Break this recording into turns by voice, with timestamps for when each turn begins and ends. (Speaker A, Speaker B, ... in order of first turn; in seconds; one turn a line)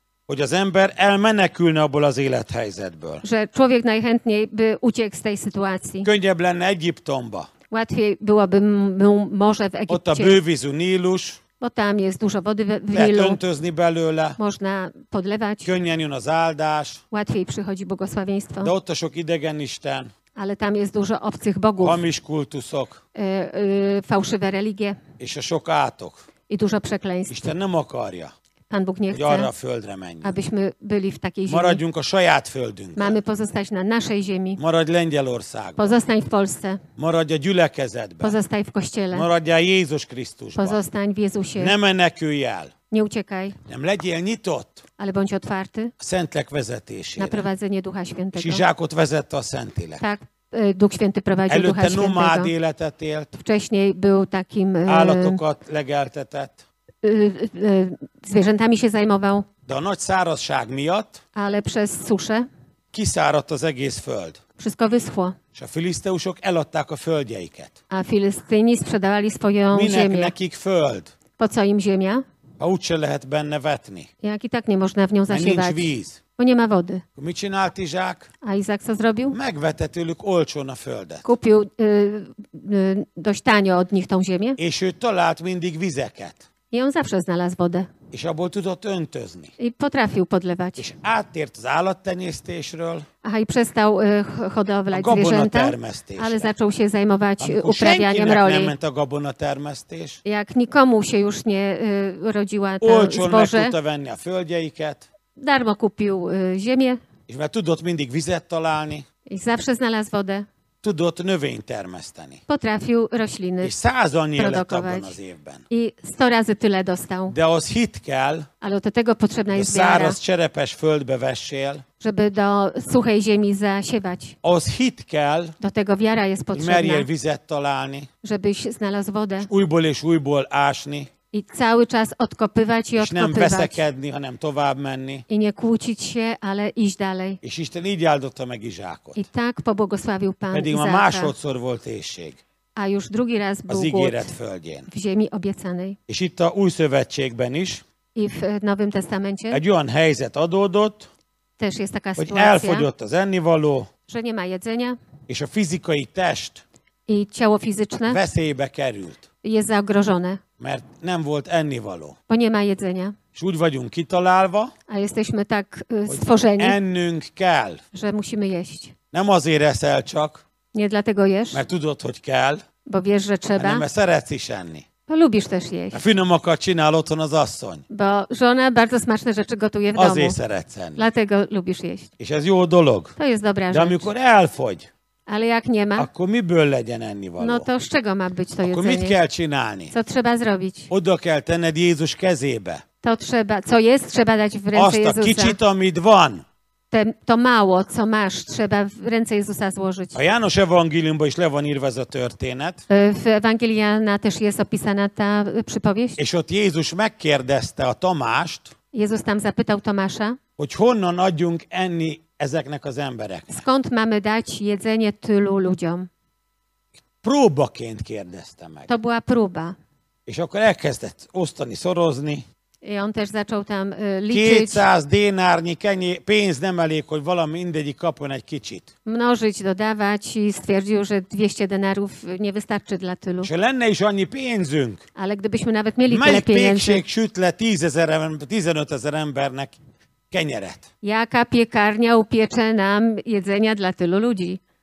Speaker A: 0.3-3.2
Speaker B: 3.2-6.1
Speaker A: 6.0-7.5
Speaker B: 7.7-10.4
Speaker A: 9.9-11.4
Speaker B: 11.6-13.4
Speaker A: 12.9-14.4
Speaker B: 14.4-15.7
Speaker A: 15.6-17.0
Speaker B: 17.1-18.7
Speaker A: 18.6-20.1
Speaker B: 20.4-22.0
Speaker A: 21.8-23.0
Speaker B: 23.1-25.0
Speaker A: 25.2-26.2
Speaker B: 26.5-27.5
Speaker A: 27.3-28.3
Speaker B: 28.7-29.5
Speaker A: 29.1-30.4
Speaker B: 30.2-31.8
Speaker A: 31.5-33.2
Speaker B: 33.0-34.6
Speaker A: 34.6-36.0
Speaker B: 35.8-36.8
Speaker A: 37.0-38.4
Speaker B: 38.2-39.3
Speaker A: 39.1-40.8
Speaker B: 40.6-41.8
Speaker A: 41.6-42.7
Speaker B: 42.9-43.6
Speaker A: 43.7-44.8
Speaker B: 45.0-45.9
Speaker A: 46.0-47.5
Speaker B: 47.2-48.6
Speaker A: 48.4-50.0
Speaker B: 50.0-52.5
Speaker A: 51.5-53.3
Speaker B: 53.3-55.4
Speaker A: 54.9-56.6
Speaker B: 57.0-59.5
Speaker A: 59.7-61.2
Speaker B: 61.4-62.5
Speaker A: 62.9-64.4
Speaker B: 64.6-65.4
Speaker A: 65.5-67.8
Speaker B: 67.9-70.3
Speaker A: 69.7-71.1
Speaker B: 71.4-72.2
Speaker A: 72.6-74.1
Speaker B: 74.2-77.0
Speaker A: 75.3-76.2
Speaker A: 77.2-78.3
Speaker B: 78.4-79.4
Speaker A: 79.3-81.3
Speaker B: 81.2-84.6
Speaker A: 84.6-86.4
Speaker B: 86.7-87.9
Speaker A: 88.1-89.5
Speaker B: 89.6-90.8
Speaker A: 90.8-93.1
Speaker B: 93.2-98.7
Speaker A: 94.9-96.5
Speaker A: 97.4-100.2
Speaker B: 100.2-103.8
Speaker A: 102.8-105.1
Speaker B: 105.4-107.0
Speaker A: 107.3-109.1
Speaker B: 109.3-110.5
Speaker A: 110.8-112.4
Speaker B: 112.5-113.8
Speaker A: 113.6-115.6
Speaker B: 114.4-115.2
Speaker B: 115.7-117.3
Speaker A: 117.3-118.5
Speaker B: 118.6-120.2
Speaker A: 119.5-121.8
Speaker B: 122.0-124.4
Speaker A: 124.4-125.5
Speaker B: 125.6-127.1
Speaker A: 126.5-128.1
Speaker B: 128.2-129.5
Speaker A: 129.5-131.1
Speaker B: 131.3-133.8
Speaker A: 133.0-135.2
Speaker B: 135.3-137.4
Speaker A: 137.4-139.3
Speaker B: 139.2-141.3
Speaker A: 140.5-142.4
Speaker B: 142.8-144.3
Speaker A: 143.7-144.9
Speaker B: 144.9-146.0
Speaker A: 146.1-147.8
Speaker B: 148.2-149.6
Speaker A: 149.5-151.1
Speaker B: 151.6-152.9
Speaker A: 152.2-153.9
Speaker B: 154.1-155.0
Speaker A: 155.3-156.6
Speaker B: 157.1-158.2
Speaker A: 158.1-159.2
Speaker B: 159.4-160.4
Speaker A: 160.6-162.2
Speaker B: 162.3-163.2
Speaker A: 163.3-164.7
Speaker B: 164.9-166.8
Speaker A: 166.1-167.8
Speaker B: 167.9-168.9
Speaker A: 169.1-170.4
Speaker B: 170.7-171.6
Speaker A: 171.5-172.6
Speaker B: 172.9-173.8
Speaker A: 173.6-174.8
Speaker B: 175.1-176.1
Speaker A: 175.9-177.8
Speaker B: 177.9-180.4
Speaker A: 179.9-181.0
Speaker B: 181.0-182.1
Speaker A: 182.2-183.1
Speaker B: 183.2-184.1
Speaker A: 183.7-184.9
Speaker B: 185.3-186.1
Speaker A: 186.0-187.7
Speaker B: 187.4-189.2
Speaker A: 188.6-189.9
Speaker B: 189.9-190.9
Speaker A: 190.9-192.8
Speaker B: 193.0-195.6
Speaker A: 194.7-196.4
Speaker B: 196.9-200.2
Speaker A: 200.1-202.8
Speaker B: 202.9-206.2
Speaker A: 206.2-208.7
Speaker B: 208.9-210.4
Speaker A: 210.6-213.6
Speaker B: 213.5-216.1
Speaker A: 217.2-218.9
Speaker B: 218.9-219.8
Speaker A: 220.3-222.4
Speaker B: 222.8-224.9
Speaker A: 224.3-228.9
Speaker B: 229.1-233.5
Speaker A: 233.4-235.0
Speaker B: 235.2-237.0
Speaker A: 236.1-239.8
Speaker A: 240.3-240.9
Speaker B: 241.0-244.6